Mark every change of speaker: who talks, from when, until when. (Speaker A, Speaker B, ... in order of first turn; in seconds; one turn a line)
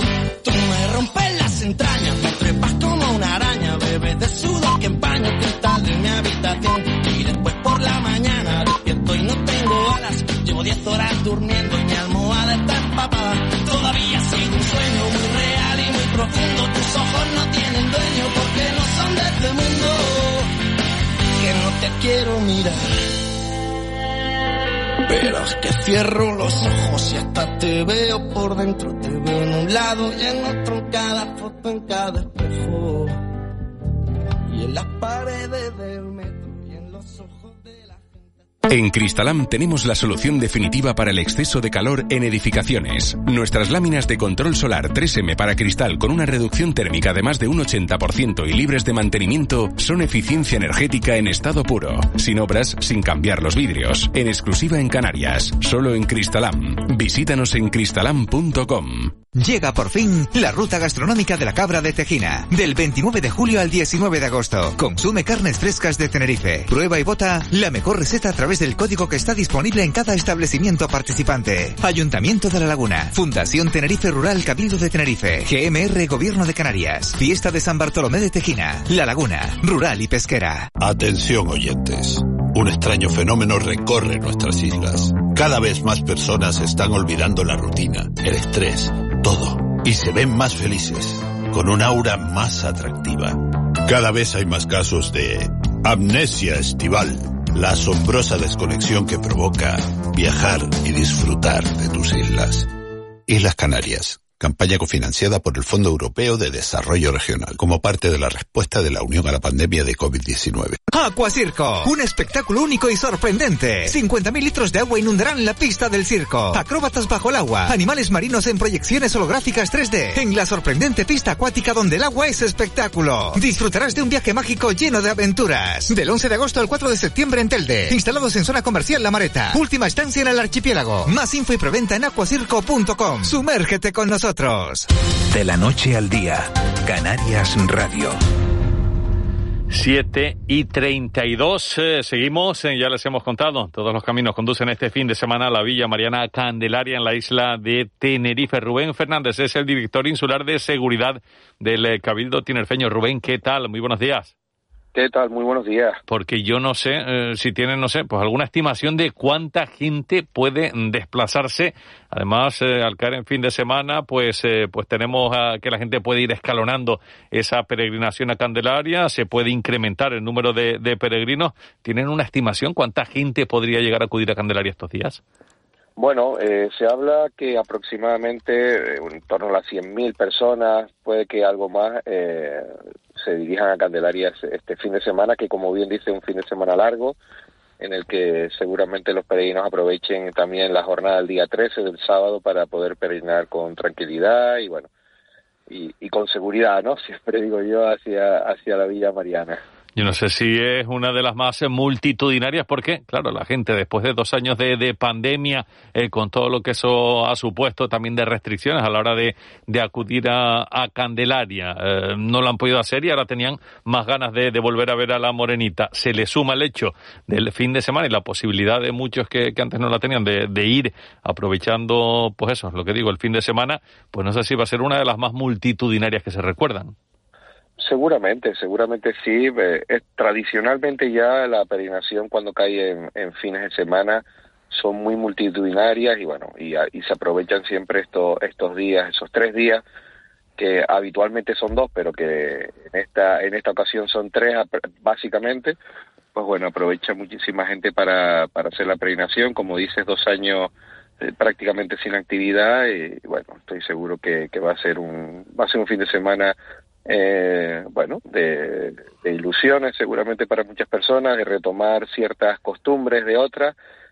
Speaker A: 0.4-20.5
Speaker A: 21.4-23.0
Speaker A: 25.0-33.2
Speaker A: 34.5-38.5
Speaker B: 38.7-59.2
Speaker C: 59.4-80.7
Speaker D: 80.8-102.7
Speaker D: 103.3-110.8
Speaker C: 110.9-134.9
Speaker E: 135.3-138.2
Speaker F: 139.7-154.3
Speaker G: 154.9-156.0
Speaker F: 156.1-175.2
Speaker G: 176.0-187.2
Speaker G: 187.8-194.9
Speaker G: 195.7-199.6
Speaker F: 199.9-226.9
Speaker G: 227.8-239.8
Speaker G: 240.6-245.8
Speaker G: 246.3-263.7